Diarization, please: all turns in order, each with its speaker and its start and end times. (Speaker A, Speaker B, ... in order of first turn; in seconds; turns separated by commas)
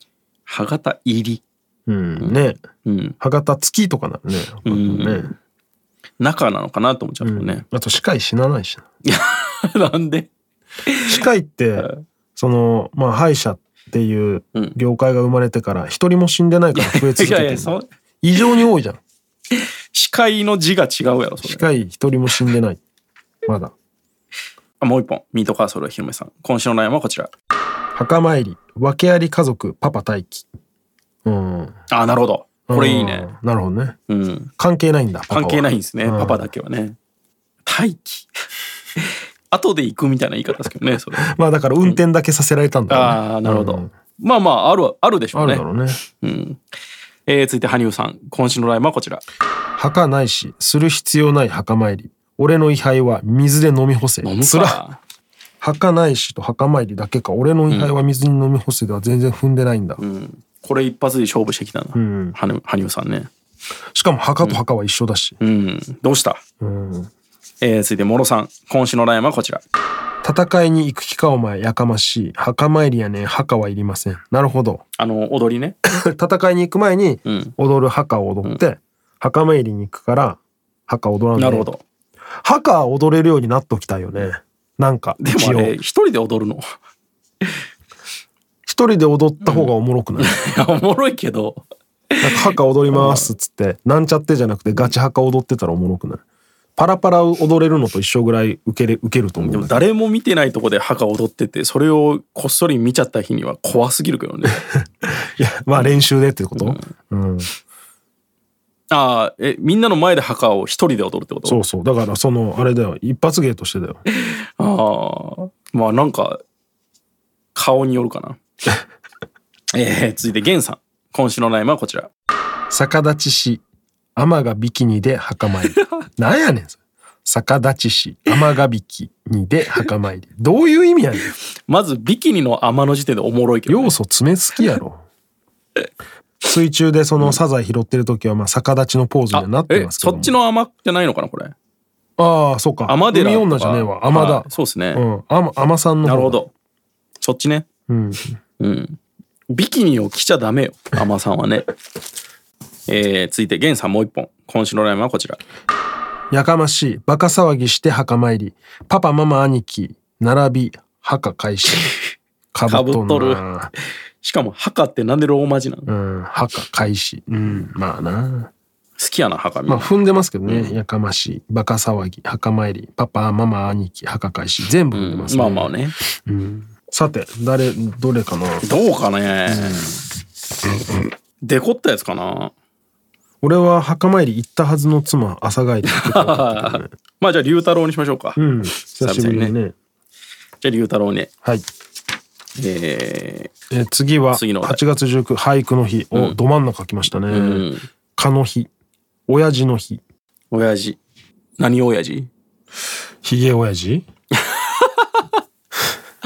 Speaker A: 0.5-1.4, Speaker B: 1.9-2.6, Speaker A: 2.2-3.2, Speaker B: 3.2-5.3, Speaker A: 4.6-5.3, Speaker A: 6.2-7.6, Speaker B: 7.2-8.8, Speaker A: 9.1-10.3, Speaker A: 10.8-11.2, Speaker B: 11.1-19.0, Speaker A: 11.8-12.0, Speaker A: 16.7-18.4, Speaker A: 19.5-21.7, Speaker B: 21.4-22.8, Speaker B: 23.4-23.7, Speaker A: 24.8-27.3, Speaker B: 27.9-30.5, Speaker B: 31.2-31.8, Speaker A: 31.9-33.3, Speaker B: 32.7-34.0, Speaker A: 34.1-34.5, Speaker B: 34.6-36.4, Speaker A: 35.3-37.0, Speaker A: 37.6-38.3, Speaker A: 39.0-42.0, Speaker B: 41.2-43.9, Speaker A: 42.9-46.6, Speaker B: 45.3-46.0, Speaker A: 47.2-49.2, Speaker B: 49.8-54.8, Speaker A: 54.2-55.0, Speaker B: 55.6-60.0, Speaker A: 60.0-63.3, Speaker B: 61.9-62.4, Speaker B: 63.9-65.4, Speaker A: 65.4-66.4, Speaker B: 66.6-67.1, Speaker A: 67.6-69.6, Speaker B: 70.2-74.8, Speaker A: 75.0-75.8, Speaker B: 76.1-81.7, Speaker A: 77.2-77.5, Speaker A: 81.3-81.8, Speaker B: 82.4-85.8, Speaker A: 85.2-86.8, Speaker B: 88.7-90.4, Speaker A: 89.4-91.7, Speaker A: 92.2-93.3, Speaker B: 92.2-96.2, Speaker B: 96.8-99.8, Speaker A: 99.4-104.6, Speaker B: 105.0-107.5, Speaker A: 105.7-106.0, Speaker A: 106.5-106.9, Speaker A: 108.9-111.6, Speaker B: 111.4-114.0, Speaker A: 114.1-116.4, Speaker A: 117.5-118.4, Speaker A: 119.7-122.1, Speaker B: 122.7-123.6, Speaker B: 124.2-131.3, Speaker A: 131.3-133.9, Speaker B: 133.7-135.0, Speaker B: 136.4-140.3, Speaker A: 139.3-141.5, Speaker B: 142.2-146.4, Speaker A: 142.9-145.0, Speaker A: 146.0-146.5, Speaker A: 147.2-147.7, Speaker B: 147.9-148.4, Speaker A: 148.6-149.0, Speaker A: 149.5-151.7, Speaker A: 152.9-155.4, Speaker B: 156.3-161.9, Speaker B: 162.5-163.7, Speaker A: 162.7-163.4, Speaker A: 164.2-165.9, Speaker B: 165.9-168.5, Speaker A: 169.0-169.9, Speaker B: 169.7-178.7, Speaker A: 170.4-170.8, Speaker A: 174.9-175.9, Speaker A: 178.6-179.9, Speaker B: 179.5-179.9, Speaker A: 181.4-182.5, Speaker B: 183.4-186.9, Speaker A: 185.8-189.5, Speaker B: 188.3-189.7, Speaker A: 190.6-191.3, Speaker A: 192.6-193.5, Speaker B: 193.7-198.7, Speaker A: 194.3-194.8, Speaker A: 197.3-197.9, Speaker B: 199.3-200.0, Speaker A: 200.5-201.0, Speaker A: 201.6-202.3, Speaker B: 203.2-204.1, Speaker A: 204.4-205.3